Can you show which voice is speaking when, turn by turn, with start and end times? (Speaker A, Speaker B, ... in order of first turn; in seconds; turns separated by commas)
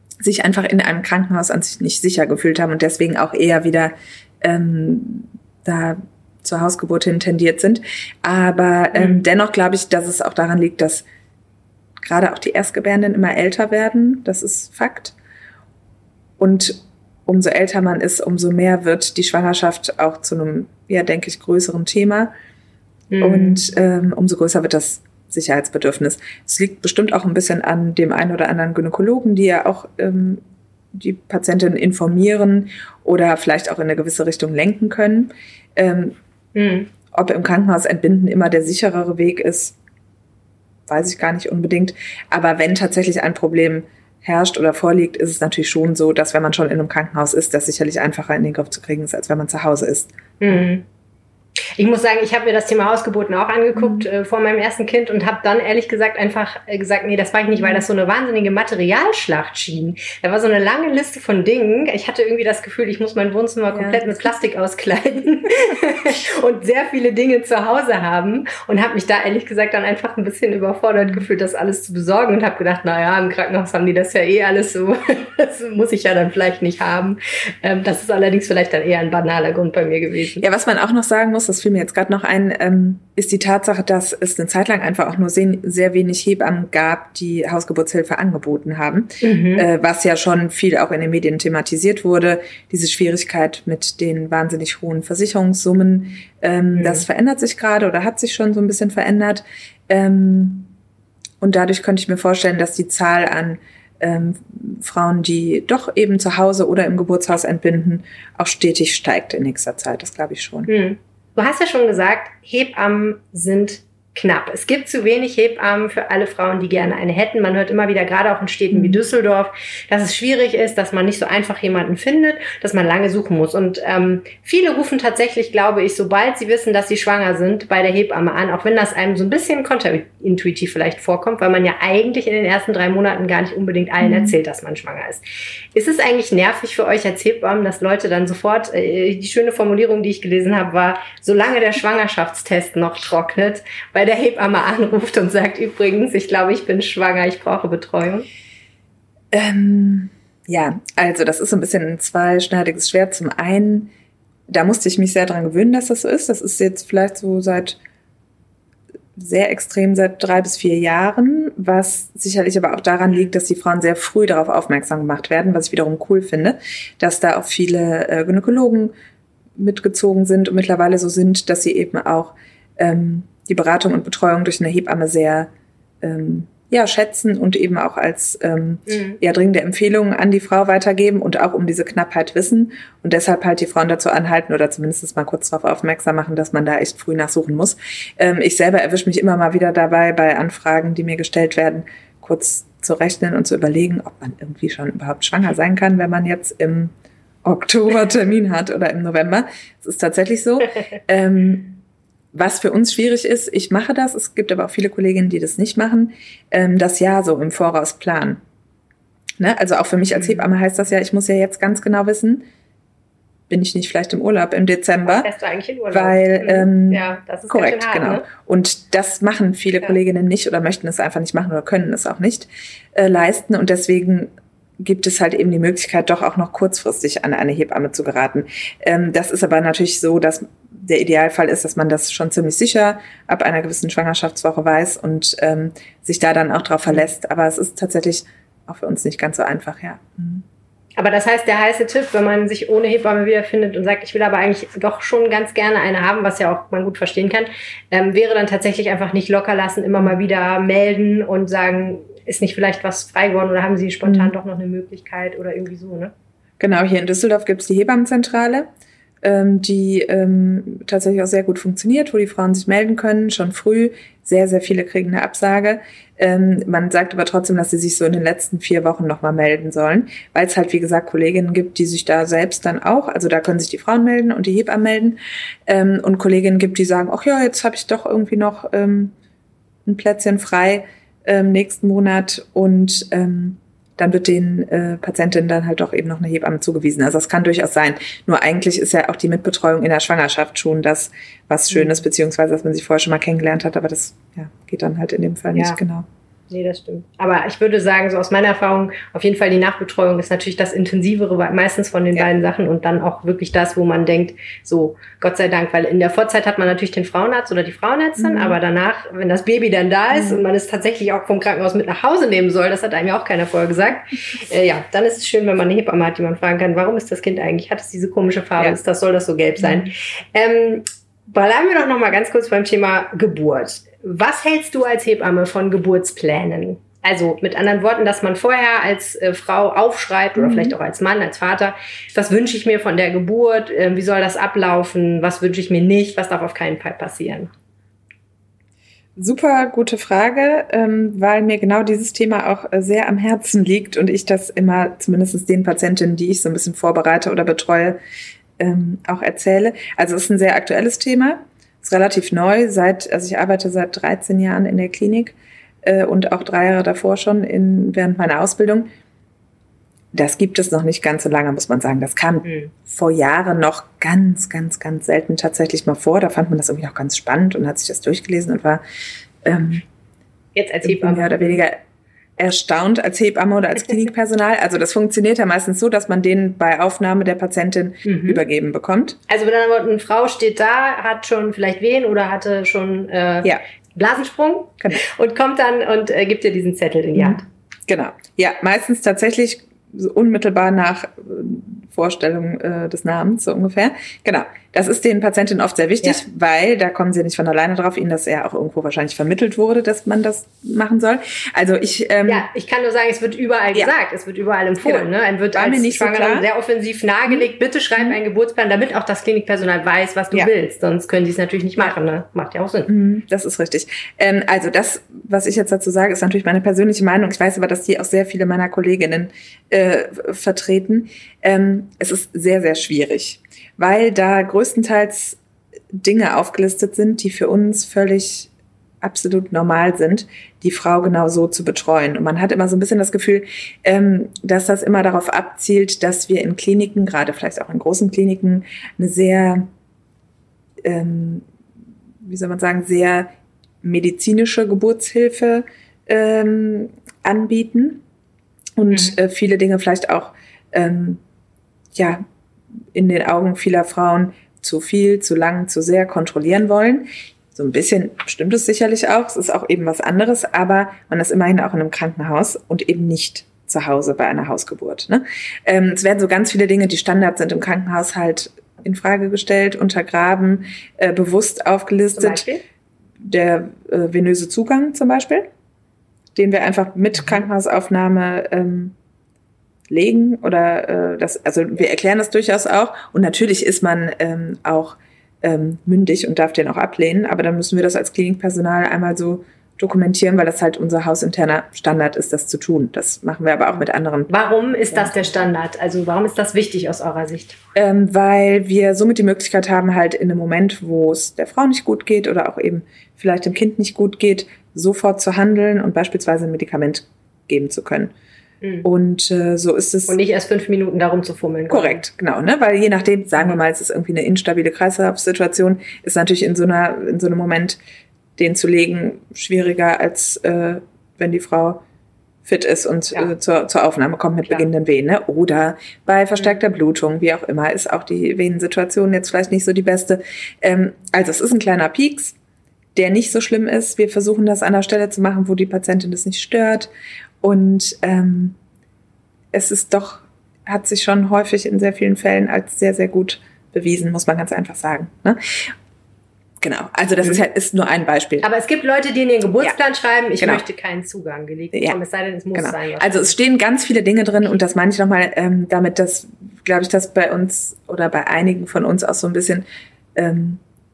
Speaker A: 0.2-11.1, Speaker B: 8.9-9.2, Speaker A: 12.0-15.2, Speaker A: 16.4-22.3, Speaker B: 23.1-23.6, Speaker A: 23.2-36.2, Speaker B: 36.5-36.9, Speaker A: 37.1-39.8, Speaker A: 40.9-50.6, Speaker B: 50.4-50.9, Speaker B: 51.8-80.4, Speaker A: 53.8-54.1, Speaker A: 57.6-57.8, Speaker A: 63.7-64.1, Speaker A: 80.4-100.7, Speaker B: 89.2-89.7, Speaker B: 96.8-97.0, Speaker A: 101.4-110.7, Speaker B: 110.7-135.2, Speaker A: 118.7-119.0, Speaker A: 134.0-134.4, Speaker B: 135.7-148.3, Speaker A: 149.3-153.9, Speaker A: 154.5-157.8, Speaker A: 159.2-168.9, Speaker A: 169.6-175.5, Speaker A: 176.0-196.9, Speaker B: 178.9-179.2, Speaker A: 197.4-208.4, Speaker A: 209.4-212.5, Speaker B: 210.2-210.4, Speaker A: 213.5-215.3, Speaker B: 215.0-218.3, Speaker A: 215.9-240.4, Speaker B: 241.0-256.1, Speaker A: 254.0-254.3, Speaker A: 256.6-258.7, Speaker A: 259.2-279.1, Speaker A: 279.9-296.1, Speaker B: 296.5-337.5, Speaker A: 308.2-308.6, Speaker A: 310.1-310.4, Speaker A: 319.6-319.9, Speaker A: 330.4-330.8, Speaker A: 339.2-348.0, Speaker A: 348.6-358.9, Speaker A: 360.1-368.8, Speaker B: 362.4-362.7, Speaker A: 369.4-369.8, Speaker B: 370.5-371.6, Speaker A: 370.8-371.8, Speaker A: 372.4-379.2, Speaker B: 378.0-378.4, Speaker B: 379.3-387.4, Speaker A: 387.1-402.5, Speaker B: 402.2-412.9, Speaker A: 404.8-406.5, Speaker A: 412.9-425.4, Speaker A: 425.9-428.5, Speaker A: 429.0-439.7, Speaker A: 440.8-441.5, Speaker A: 442.2-443.3, Speaker A: 443.8-448.0, Speaker A: 448.8-451.2, Speaker A: 451.9-452.2, Speaker A: 452.9-472.5, Speaker B: 472.1-472.6, Speaker A: 473.2-475.5, Speaker A: 476.4-478.9, Speaker A: 479.9-494.3, Speaker B: 494.3-497.6, Speaker A: 494.9-495.3, Speaker A: 497.8-508.1, Speaker A: 508.8-510.2, Speaker B: 510.1-512.0, Speaker A: 511.7-517.8, Speaker A: 518.4-521.8, Speaker A: 522.5-532.4, Speaker A: 533.0-536.9, Speaker A: 537.4-538.6, Speaker A: 539.5-545.7, Speaker A: 546.6-548.5, Speaker B: 548.4-553.4, Speaker A: 551.7-552.0, Speaker A: 552.5-560.6